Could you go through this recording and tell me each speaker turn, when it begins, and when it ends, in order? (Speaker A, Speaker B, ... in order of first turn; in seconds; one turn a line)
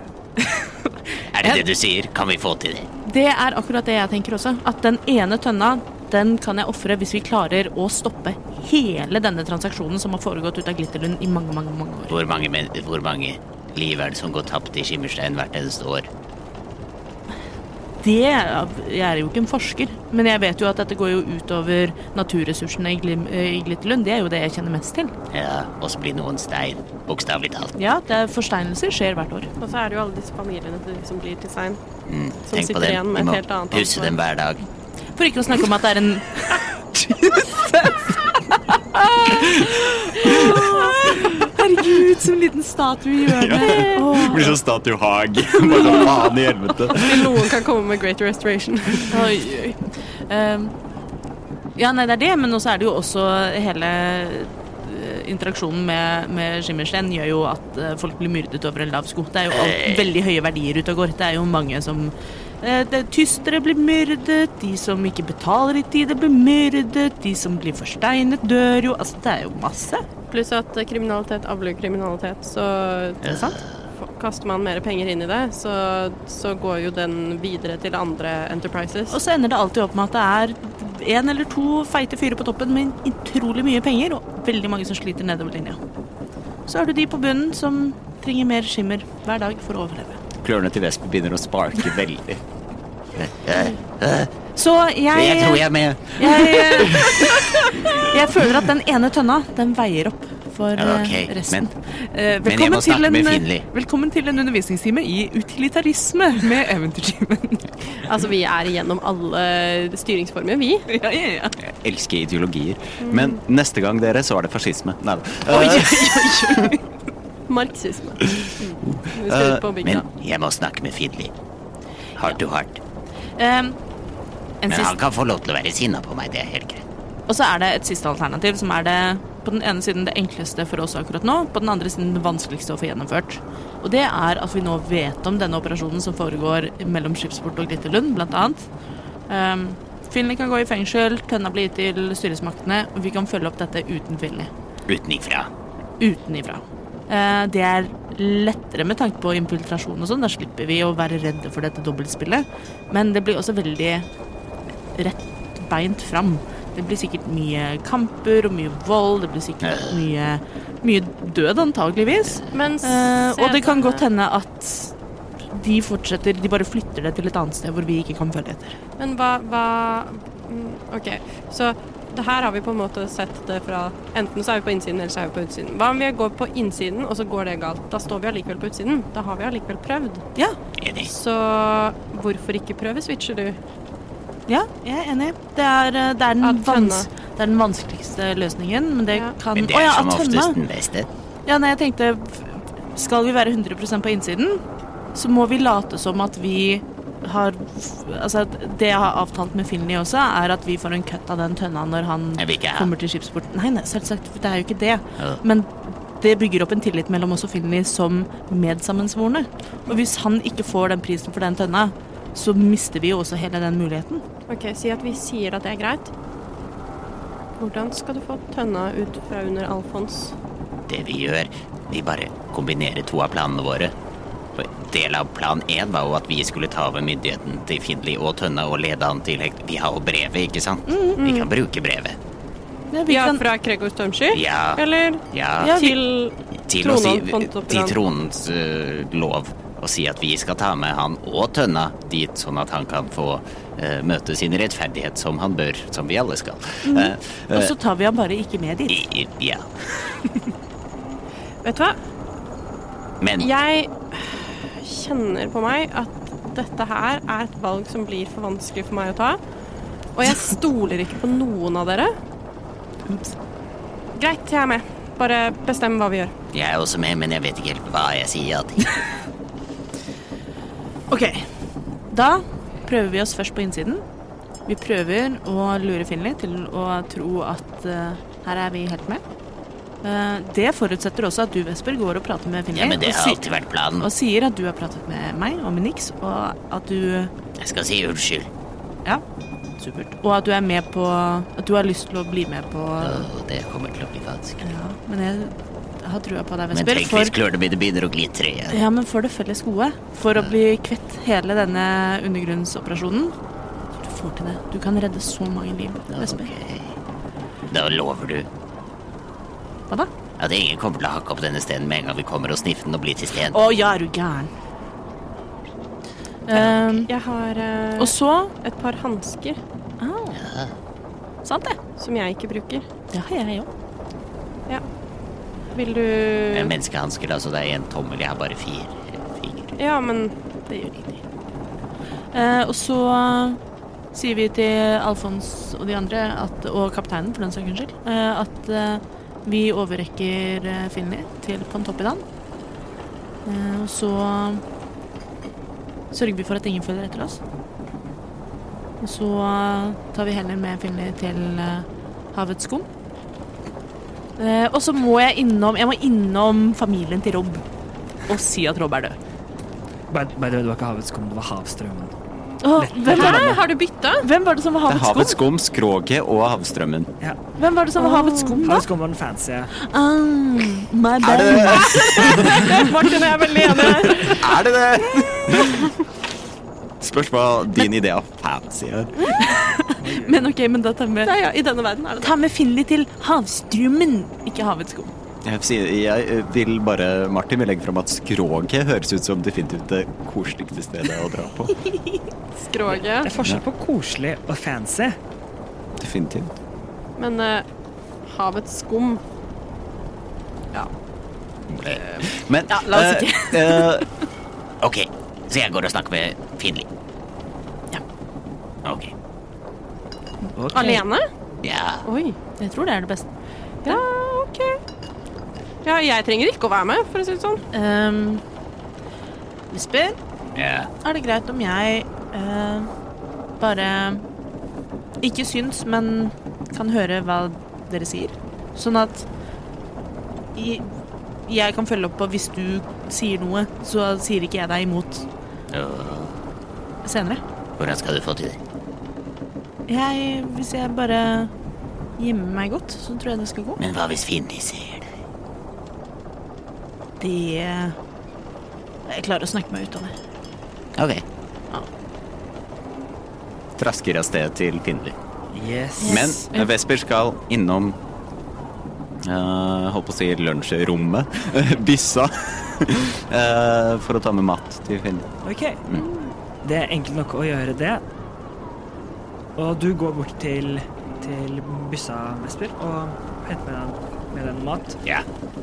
Speaker A: 1.3-2.9
Speaker B: 1.4-1.6
Speaker B: 3.0-12.2
Speaker A: 12.1-16.1
Speaker B: 18.0-25.1
Speaker A: 25.3-27.7
Speaker B: 27.8-29.5
Speaker C: 29.6-31.8
Speaker A: 32.1-34.6
Speaker C: 32.5-34.1
Speaker B: 35.1-44.6
Speaker D: 43.3-47.5
Speaker C: 45.7-46.3
Speaker C: 46.9-49.3
Speaker B: 49.1-50.7
Speaker B: 51.8-70.0
Speaker A: 59.5-60.1
Speaker C: 70.3-79.2
Speaker A: 73.2-73.8
Speaker B: 73.3-73.5
Speaker B: 79.1-85.8
Speaker B: 86.7-90.2
Speaker D: 90.4-92.4
Speaker A: 93.1-94.3
Speaker B: 94.5-107.7
Speaker A: 95.1-97.2
Speaker A: 100.8-101.7
Speaker A: 102.4-103.6
Speaker C: 108.0-110.9
Speaker B: 110.9-111.5
Speaker D: 111.7-116.7
Speaker C: 113.0-113.4
Speaker B: 115.5-116.8
Speaker C: 117.5-120.0
Speaker D: 118.4-119.4
Speaker A: 119.5-121.3
Speaker A: 122.2-122.8
Speaker B: 123.4-123.8
Speaker B: 124.6-125.0
Speaker A: 124.7-126.8
Speaker B: 127.3-138.7
Speaker B: 139.3-144.5
Speaker A: 144.9-145.5
Speaker B: 146.0-154.1
Speaker B: 154.9-164.9
Speaker A: 159.6-160.0
Speaker C: 162.5-164.0
Speaker B: 165.5-168.8
Speaker C: 169.0-180.2
Speaker A: 180.8-181.1
Speaker C: 181.0-183.6
Speaker B: 184.5-190.6
Speaker C: 186.4-187.1
Speaker A: 189.5-191.1
Speaker B: 191.4-194.6
Speaker B: 195.1-214.2
Speaker A: 202.4-202.9
Speaker C: 214.5-216.1
Speaker C: 217.6-220.3
Speaker A: 220.9-223.9
Speaker A: 224.6-232.2
Speaker B: 230.9-231.2
Speaker C: 231.2-231.5
Speaker B: 232.9-233.4
Speaker C: 233.1-238.0
Speaker A: 234.3-235.9
Speaker B: 235.6-235.9
Speaker A: 236.7-247.7
Speaker B: 246.8-249.1
Speaker A: 248.9-249.7
Speaker C: 251.6-252.0
Speaker A: 253.2-253.5
Speaker C: 253.4-259.4
Speaker C: 260.1-262.1
Speaker B: 263.0-263.4
Speaker C: 264.1-266.3
Speaker A: 266.5-269.0
Speaker B: 271.1-271.4
Speaker B: 272.1-274.0
Speaker B: 274.6-279.2
Speaker B: 280.0-283.4
Speaker A: 282.7-284.1
Speaker B: 283.9-287.3
Speaker A: 287.6-288.5
Speaker B: 289.8-293.3
Speaker A: 293.0-294.6
Speaker B: 294.6-297.3
Speaker A: 296.7-298.8
Speaker B: 298.7-303.3
Speaker B: 304.0-306.5
Speaker A: 306.1-307.0
Speaker A: 307.7-308.5
Speaker A: 310.4-313.6
Speaker B: 313.4-314.5
Speaker B: 316.5-317.1
Speaker C: 316.8-319.6
Speaker B: 318.0-318.5
Speaker B: 320.0-320.4
Speaker A: 320.4-320.7
Speaker B: 321.4-321.8
Speaker C: 322.0-322.8
Speaker B: 323.1-323.7
Speaker C: 325.7-326.7
Speaker A: 326.5-329.7
Speaker C: 329.8-330.3
Speaker B: 330.7-331.2
Speaker B: 332.3-333.6
Speaker B: 334.1-342.2
Speaker B: 343.4-344.6
Speaker B: 346.1-347.4
Speaker B: 349.0-352.9
Speaker B: 354.4-357.6
Speaker B: 358.2-359.2
Speaker E: 360.1-362.1
Speaker B: 362.6-363.6
Speaker E: 362.7-363.7
Speaker C: 363.0-364.2
Speaker B: 364.2-365.4
Speaker D: 364.9-367.1
Speaker B: 367.6-368.9
Speaker C: 368.0-368.7
Speaker E: 368.6-369.7
Speaker B: 369.7-374.6
Speaker D: 371.2-372.6
Speaker C: 373.0-374.3
Speaker D: 374.4-375.9
Speaker D: 377.0-379.5
Speaker B: 379.3-381.4
Speaker E: 380.0-380.5
Speaker C: 381.2-382.3
Speaker B: 382.2-385.1
Speaker D: 385.4-391.8
Speaker B: 391.9-392.2
Speaker C: 392.6-393.3
Speaker E: 392.9-395.2
Speaker D: 396.0-396.6
Speaker C: 397.2-397.6
Speaker C: 398.2-399.2
Speaker A: 401.8-402.9
Speaker B: 402.7-404.0
Speaker D: 402.8-404.1
Speaker A: 404.8-406.9
Speaker A: 408.8-409.1
Speaker B: 410.6-411.0
Speaker E: 410.6-410.9
Speaker C: 410.7-411.3
Speaker A: 411.6-412.0
Speaker C: 412.0-412.4
Speaker B: 412.6-413.2
Speaker C: 413.8-414.8
Speaker C: 415.8-417.6
Speaker B: 417.7-418.4
Speaker B: 419.7-420.2
Speaker A: 420.6-420.9
Speaker B: 421.0-422.9
Speaker B: 423.6-424.2
Speaker B: 425.2-429.3
Speaker B: 430.5-430.9
Speaker B: 431.4-435.3
Speaker A: 435.7-436.4
Speaker B: 437.0-437.4
Speaker A: 437.8-438.6
Speaker B: 439.9-441.5
Speaker B: 442.2-443.8
Speaker A: 443.8-445.1
Speaker B: 447.2-448.0
Speaker B: 449.1-450.1
Speaker A: 450.9-451.2
Speaker D: 453.8-455.0
Speaker E: 455.5-456.4
Speaker B: 456.0-456.7
Speaker D: 456.0-458.0
Speaker D: 459.3-465.3
Speaker E: 465.4-465.8
Speaker E: 466.6-468.0
Speaker E: 469.6-475.0